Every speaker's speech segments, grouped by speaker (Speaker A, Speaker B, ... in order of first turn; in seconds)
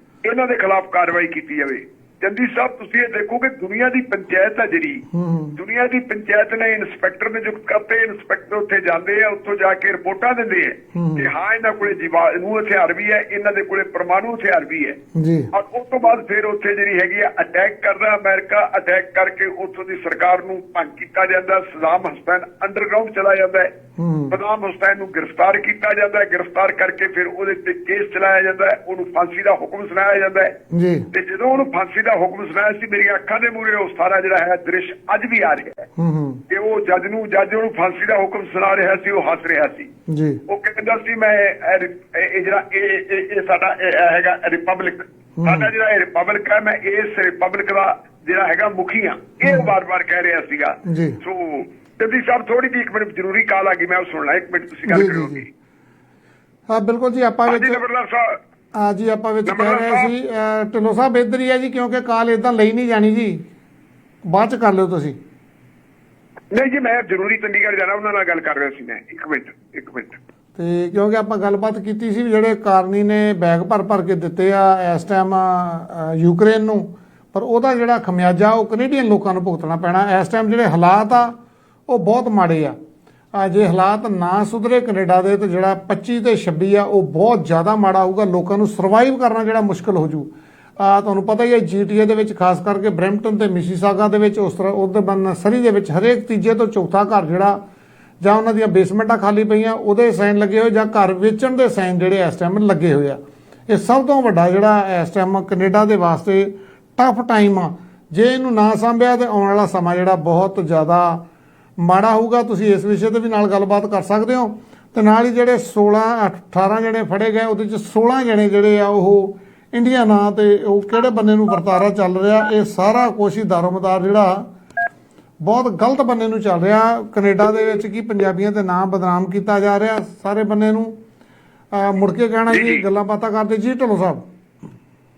Speaker A: 0.2-5.0, 5.6-15.0, 15.5-23.7, 24.3-30.6, 31.1-35.9, 36.5-39.9, 40.5-55.5, 57.5-58.4, 59.5-60.1, 66.5-70.2, 132.5-132.8
Speaker B: 5.1-5.6, 10.9-11.3, 15.2-15.5, 24.0-24.4, 30.7-31.1, 36.0-36.4, 40.1-40.4, 45.4-45.7, 49.5-49.7, 50.9-51.2, 54.9-55.5, 56.7-57.8, 58.7-63.5, 64.3-65.2, 70.6-81.3, 81.9-82.8, 83.3-97.6, 98.2-111.2, 111.8-124.5, 125.4-130.9, 131.7-134.2